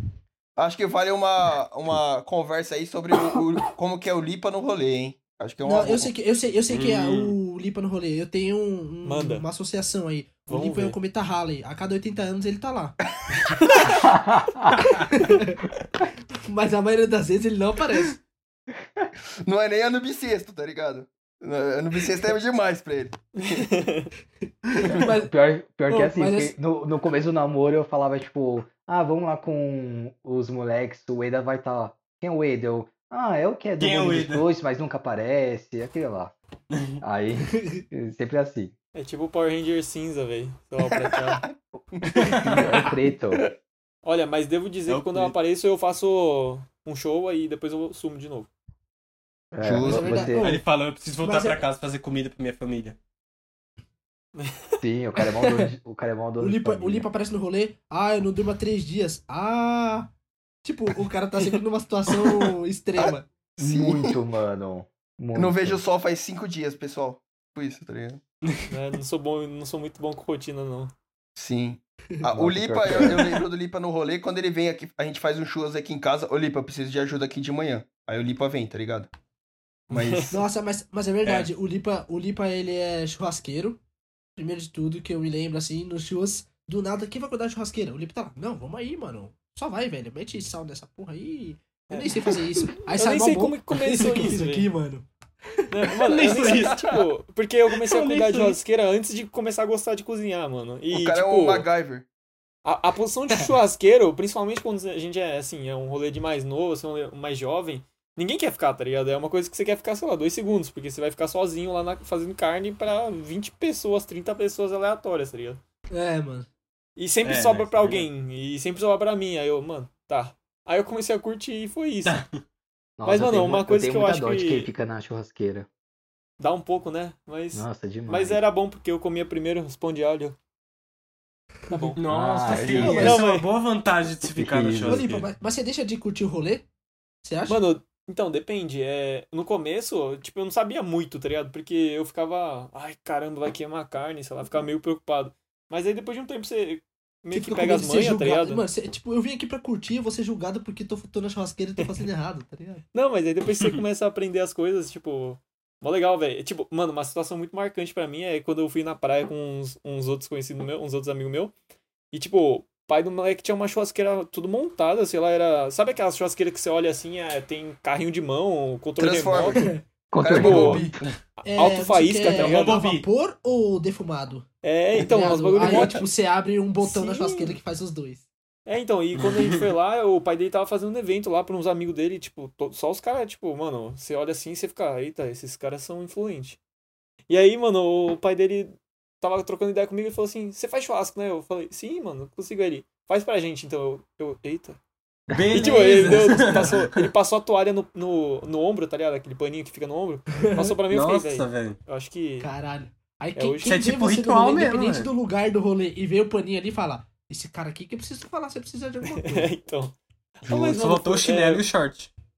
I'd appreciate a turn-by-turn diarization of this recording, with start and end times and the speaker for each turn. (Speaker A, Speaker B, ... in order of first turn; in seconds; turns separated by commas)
Speaker A: 0.6-6.1, Speaker B: 5.6-13.0, Speaker C: 6.7-7.3, Speaker D: 9.0-9.4, Speaker D: 10.5-11.0, Speaker D: 13.5-13.9, Speaker E: 14.0-14.8, Speaker B: 14.8-15.6, Speaker B: 16.4-18.2, Speaker A: 19.4-23.6, Speaker D: 23.4-24.1, Speaker B: 24.8-25.3, Speaker E: 25.1-36.3, Speaker B: 25.9-26.5, Speaker C: 33.8-34.5, Speaker C: 36.7-37.0, Speaker E: 37.0-38.7, Speaker B: 37.5-37.8, Speaker D: 39.0-41.4, Speaker A: 41.0-43.4, Speaker C: 42.1-42.6, Speaker E: 42.4-43.4, Speaker D: 44.0-48.5, Speaker C: 44.9-45.3, Speaker E: 49.5-50.5, Speaker A: 49.6-50.3, Speaker B: 49.8-50.6, Speaker C: 50.4-53.0, Speaker B: 51.2-51.6, Speaker D: 54.4-54.8, Speaker E: 54.8-57.0, Speaker B: 55.4-55.7, Speaker B: 56.4-60.1, Speaker B: 60.6-63.3, Speaker A: 63.0-64.2, Speaker E: 63.6-65.8, Speaker A: 65.3-68.2, Speaker D: 68.7-70.9, Speaker A: 71.4-79.1, Speaker E: 72.3-73.2, Speaker D: 79.9-80.3, Speaker A: 79.9-80.4, Speaker B: 80.3-83.8, Speaker B: 84.4-95.1, Speaker D: 91.9-94.7, Speaker D: 95.7-101.7, Speaker C: 96.0-97.0, Speaker A: 96.2-97.0, Speaker C: 97.7-98.6, Speaker A: 100.9-102.0, Speaker D: 102.6-115.6, Speaker B: 115.9-116.5, Speaker D: 117.0-122.2, Speaker C: 117.2-118.1, Speaker C: 122.0-122.4, Speaker E: 123.0-125.7, Speaker D: 123.0-124.7, Speaker D: 126.4-130.3, Speaker E: 127.5-128.4, Speaker D: 131.7-132.0, Speaker C: 131.9-135.3, Speaker E: 132.1-133.2, Speaker D: 132.6-133.5, Speaker B: 132.8-133.2, Speaker E: 134.3-135.0, Speaker B: 134.8-136.7, Speaker B: 137.2-137.6, Speaker D: 137.5-148.6, Speaker B: 147.3-152.8, Speaker D: 152.9-161.5, Speaker D: 162.1-169.6, Speaker A: 169.0-171.0, Speaker B: 169.5-169.8, Speaker E: 170.1-171.1, Speaker D: 170.3-172.9, Speaker B: 171.4-174.4, Speaker C: 172.2-173.0, Speaker D: 174.6-176.1, Speaker B: 175.0-178.2, Speaker A: 175.6-176.0, Speaker D: 176.8-177.6, Speaker D: 178.7-186.6, Speaker C: 179.2-179.6, Speaker D: 187.3-194.8, Speaker C: 195.3-197.1, Speaker D: 195.5-202.5, Speaker B: 200.4-200.7, Speaker C: 200.9-201.8, Speaker B: 202.4-209.5, Speaker D: 203.3-203.8, Speaker C: 203.6-205.1, Speaker D: 209.0-211.6, Speaker C: 210.5-212.1